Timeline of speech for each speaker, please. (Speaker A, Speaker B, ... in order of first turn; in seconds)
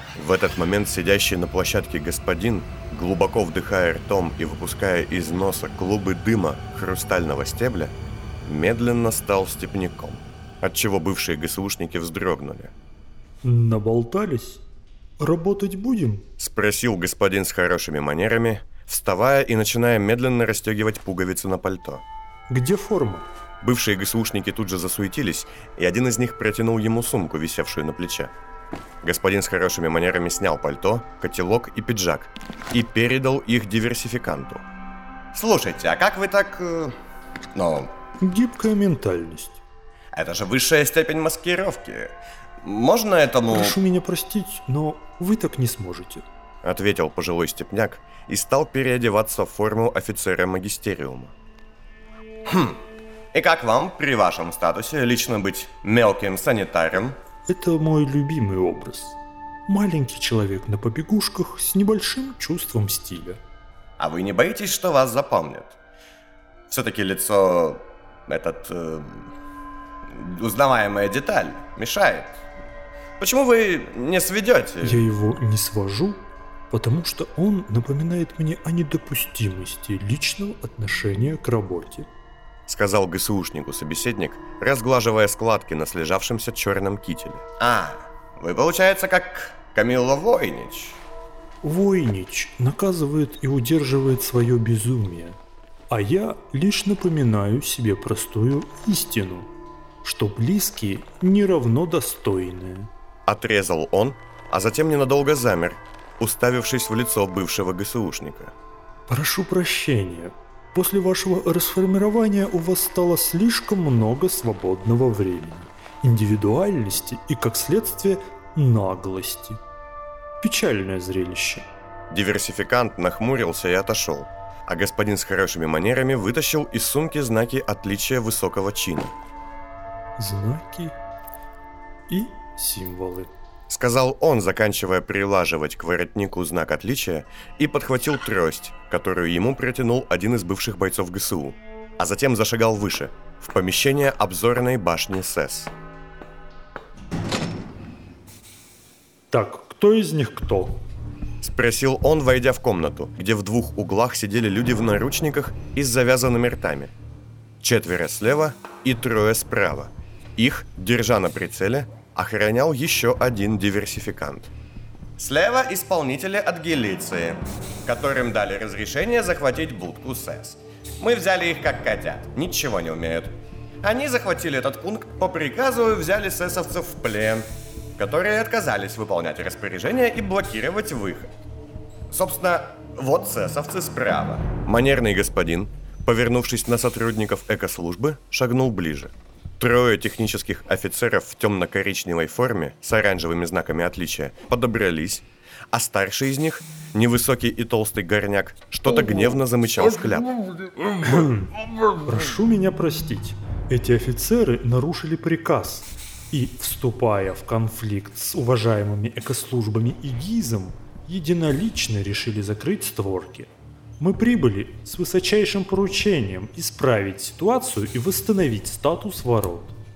Speaker A: 0.1-7.9, 8.4-12.7, 16.4-22.0, 23.6-28.3, 29.0-34.6, 46.6-51.3, 82.7-87.4, 103.3-108.5, 122.1-129.1, 133.7-145.7, 151.4-156.9, 157.6-164.5, 170.3-170.6, 175.1-175.4, 179.5-181.2, 184.5-200.3
Speaker B: 13.4-14.6, 15.2-16.3, 22.5-23.3, 38.2-39.6, 43.5-46.2, 57.5-63.4, 74.8-82.1, 91.6-95.4, 95.9-99.5, 100.0-102.9, 109.1-119.6, 120.4-121.7, 130.2-130.9, 132.1-133.3, 149.3-150.8, 201.0-201.5, 202.0-219.8
Speaker C: 35.3-37.0, 37.5-37.9, 40.1-43.7, 52.5-52.8, 53.3-57.2, 64.0-65.8, 66.7-69.3, 70.1-72.4, 73.2-75.0, 87.6-91.0, 165.2-173.3, 173.8-177.4, 178.0-181.2, 182.1-184.5